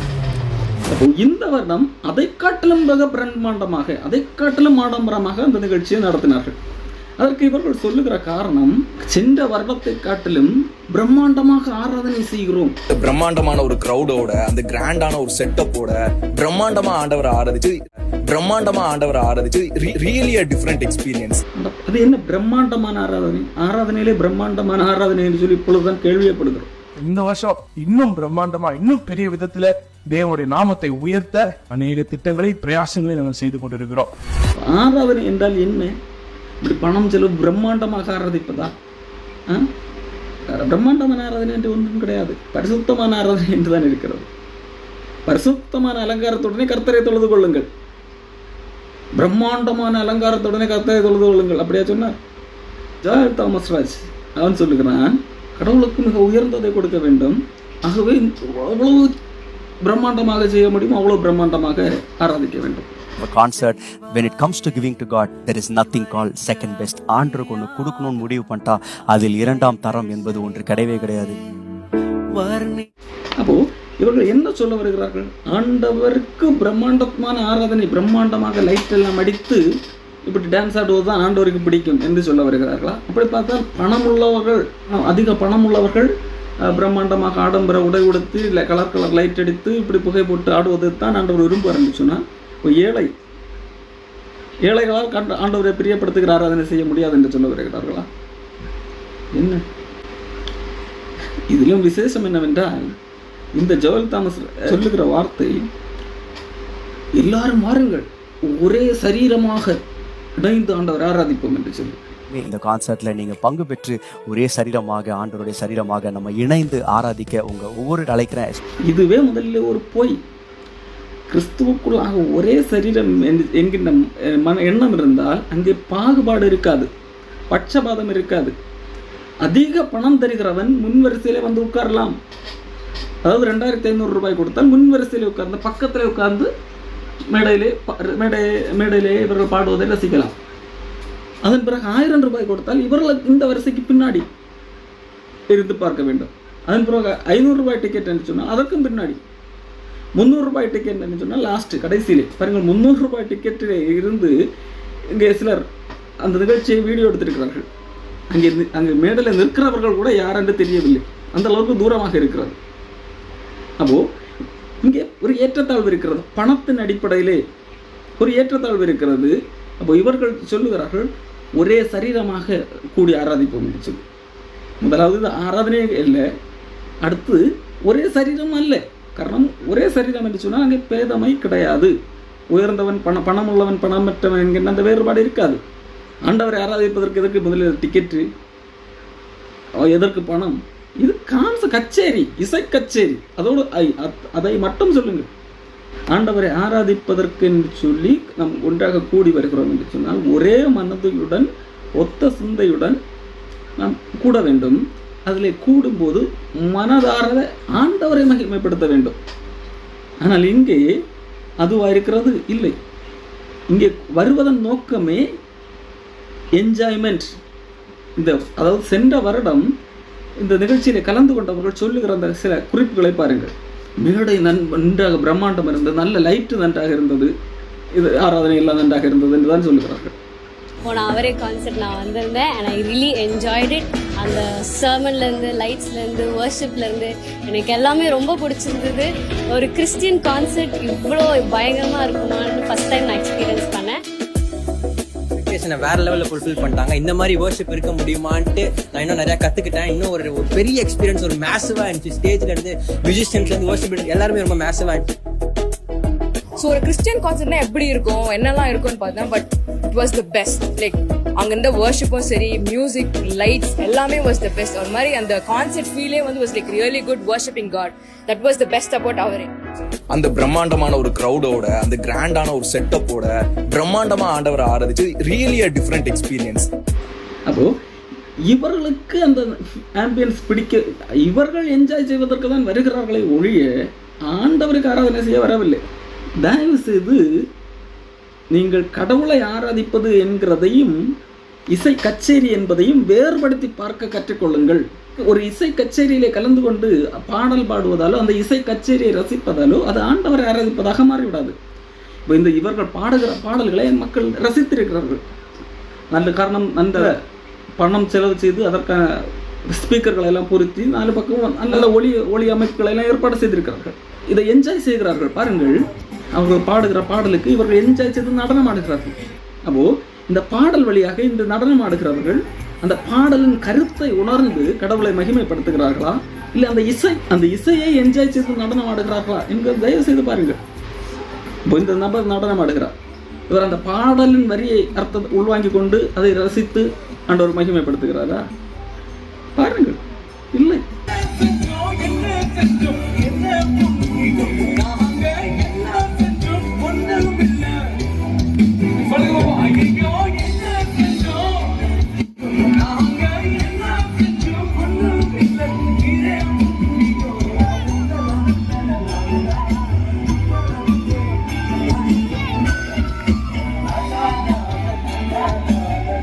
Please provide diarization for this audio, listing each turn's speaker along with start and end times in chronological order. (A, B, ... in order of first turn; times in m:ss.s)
0:00.9-0:06.6 A
0:07.2-0:12.7 A
0:12.9-0:17.7 B
0:18.3-0:21.4 B
0:21.6-0:26.7 A
0:27.0-0:34.1 C
0:34.6-0:35.9 A
0:36.6-0:38.7 A
0:40.5-0:44.3 A
0:45.3-0:47.7 A
0:49.2-0:52.2 A
0:53.0-0:59.2 A
0:59.8-1:02.9 A
1:03.2-1:11.4 D
1:12.3-1:12.9 D
1:13.4-1:19.6 A
1:20.2-1:26.1 A
1:26.6-1:33.1 A
1:34.6-1:38.1 A
1:39.3-1:39.6 A
1:41.5-1:42.9 A
1:43.6-1:45.6 A
1:47.2-1:49.8 A
1:50.4-1:52.0 A
1:52.3-1:58.6 D
1:58.9-2:00.2 A
2:01.3-2:06.9 A
2:07.5-2:08.5 A
2:09.4-2:12.2 A
2:13.2-2:16.5 A
2:17.3-2:20.4 A
2:21.4-2:24.2 A
2:25.5-2:29.2 A
2:30.2-2:34.4 A
2:35.1-2:35.6 A
2:36.2-2:37.7 A
2:38.3-2:42.6 A
2:44.8-2:47.4 A
2:48.2-2:54.0 A
2:54.8-2:56.2 A
2:57.0-3:01.9 A
3:02.5-3:05.6 A
3:06.2-3:08.3 A
3:09.8-3:15.3 A
3:16.1-3:23.0 A
3:23.8-3:29.2 A
3:30.2-3:30.8 A
3:31.6-3:32.8 A
3:33.7-3:35.2 A
3:36.6-3:37.3 A
3:38.2-3:39.7 A
3:40.4-3:47.3 A
3:47.9-3:50.1 A
3:50.8-4:04.0 E
4:05.4-4:15.1 F
4:16.6-4:29.5 G
4:30.1-4:36.7 B
4:37.5-4:37.7 A
4:38.4-4:43.7 A
4:44.3-4:45.8 A
4:46.4-4:47.2 A
4:48.5-4:51.0 A
4:51.7-5:01.5 A
5:02.3-5:05.2 A
5:06.1-5:07.1 A
5:07.8-5:15.8 A
5:16.3-5:30.6 A
5:31.7-5:32.9 A
5:33.5-5:38.4 A
5:39.5-5:40.0 A
5:40.5-5:40.8 A
5:41.3-5:47.8 C
5:49.0-5:51.8 C
5:52.4-5:59.3 C
6:04.1-6:05.8 C